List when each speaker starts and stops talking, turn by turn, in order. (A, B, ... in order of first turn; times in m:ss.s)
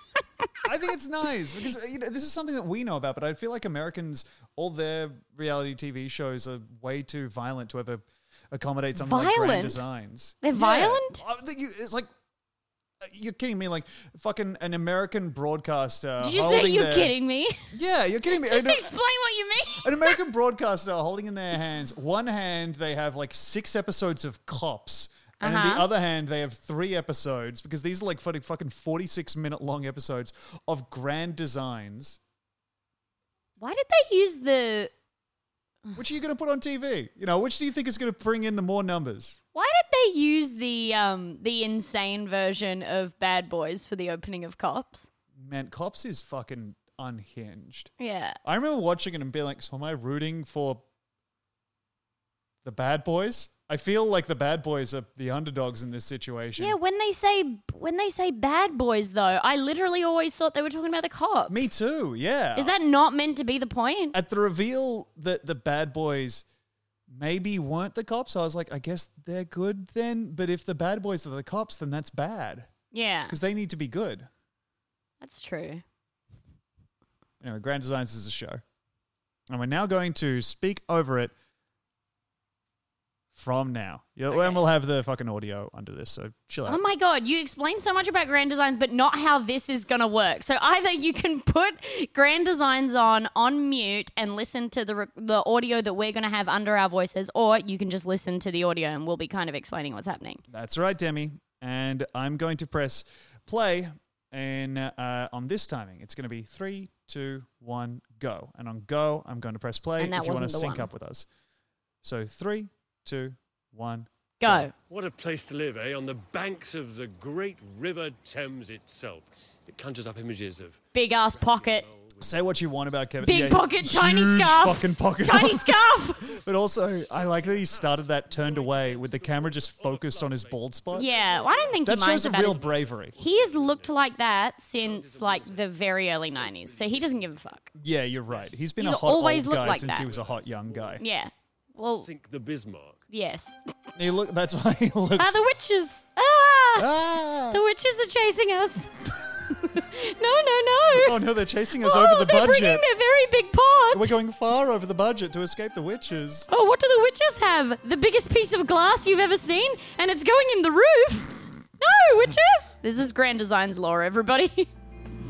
0:00.6-0:12.1 A
0:09.0-0:09.8 B
0:10.4-0:11.2 B
0:13.0-0:17.1 A
0:16.2-0:17.7 B
0:17.7-0:18.9 A
0:18.3-0:20.2 B
0:19.7-0:32.2 A
0:25.4-0:25.9 B
0:33.6-0:34.9 B
0:35.9-0:39.4 A
0:39.5-0:45.1 B
0:45.4-0:47.9 A
0:48.0-0:48.4 B
0:48.4-0:50.8 A
0:52.6-0:56.8 A
0:56.6-1:01.7 B
1:01.5-1:02.7 A
1:02.6-1:04.2 B
1:04.1-1:06.4 A
1:07.1-1:12.7 A
1:12.9-1:13.4 B
1:13.3-1:14.3 A
1:15.2-1:15.8 B
1:17.4-1:18.6 A
1:19.5-1:21.3 A
1:23.3-1:26.8 A
1:24.3-1:24.6 B
1:26.6-1:40.4 B
1:40.5-1:51.3 A
1:50.0-1:50.9 B
1:52.0-1:54.7 A
1:54.4-1:54.7 B
1:54.9-2:02.9 C
2:00.9-2:01.9 B
2:02.2-2:11.1 A
2:03.2-2:06.3 B
2:06.2-2:14.0 C
2:10.9-2:17.7 B
2:11.8-2:13.1 A
2:14.8-2:17.6 C
2:17.8-2:21.0 A
2:18.3-2:18.7 C
2:18.8-2:20.1 B
2:19.6-2:21.0 C
2:21.0-2:22.1 B
2:21.9-2:23.0 C
2:23.1-2:23.6 B
2:23.9-2:25.4 A
2:25.2-2:26.9 B
2:26.8-2:27.6 A
2:27.5-2:31.2 B
2:30.9-2:32.8 A
2:31.8-2:34.1 B
2:33.9-2:36.5 A
2:36.5-2:44.7 B